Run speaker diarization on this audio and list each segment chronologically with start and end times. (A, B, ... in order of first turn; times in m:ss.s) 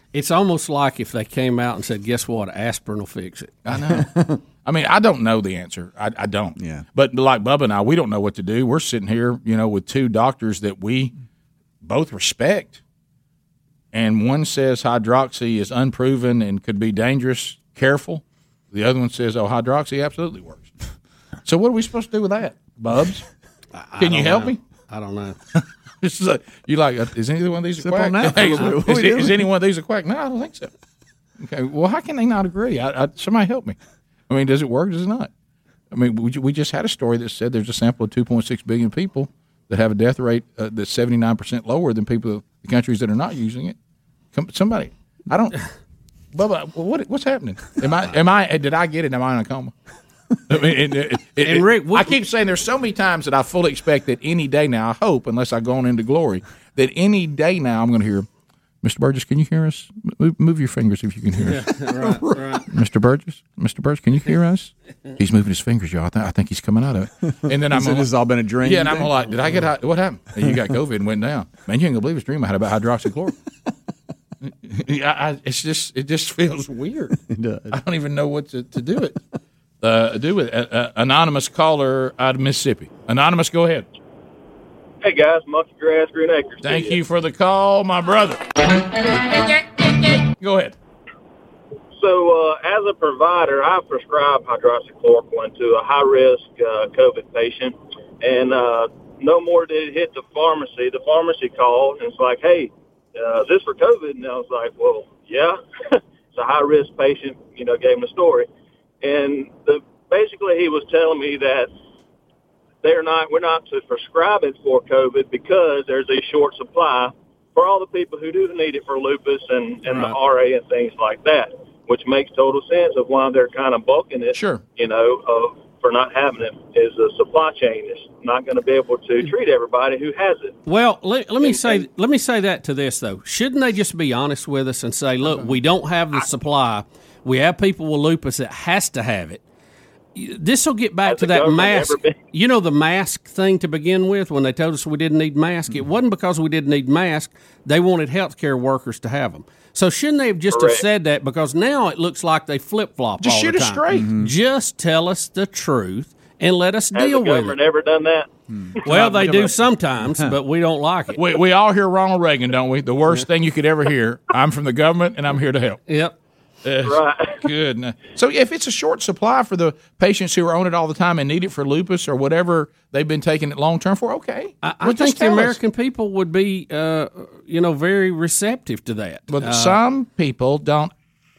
0:00.1-0:03.6 A
0:03.7-0:04.1 B
0:03.9-0:04.4 C
0:04.6-0:11.1 B
0:06.6-0:06.8 C
0:11.8-0:12.8 B
0:13.9-0:20.7 B
0:21.4-0:23.2 B
0:23.8-0:25.4 A
0:24.0-0:24.6 B
0:25.6-0:30.7 B
0:27.8-0:29.5 C
0:31.4-0:33.8 B
0:34.3-0:35.3 B
0:35.9-0:43.8 B
0:44.3-0:45.6 B
0:46.3-0:49.7 B
0:50.5-0:58.3 B
0:51.4-0:52.1 A
0:58.8-1:08.1 B
1:01.5-1:02.7 A
1:07.7-1:09.1 C
1:08.6-1:13.4 B
1:14.4-1:17.2 B
1:17.3-1:17.8 C
1:17.7-1:19.2 B
1:19.8-1:23.9 B
1:25.0-1:27.0 D
1:26.6-1:28.5 B
1:29.8-1:30.8 B
1:31.9-1:48.5 D
1:49.0-1:51.7 D
1:52.8-2:10.6 D
2:04.4-2:04.6 B
2:10.7-2:19.4 A
2:11.4-2:11.9 D
2:20.2-2:37.6 A
2:21.1-2:22.2 D
2:30.5-2:30.8 D
2:33.2-2:34.1 B
2:33.9-2:34.3 C
2:36.9-2:38.3 D
2:38.5-2:38.8 C
2:38.8-2:41.2 A
2:38.9-2:39.6 D
2:41.2-2:45.8 B
2:45.9-2:46.1 A
2:46.6-2:55.6 B
2:46.8-2:47.5 D
2:54.6-2:59.8 A
2:59.3-3:00.9 B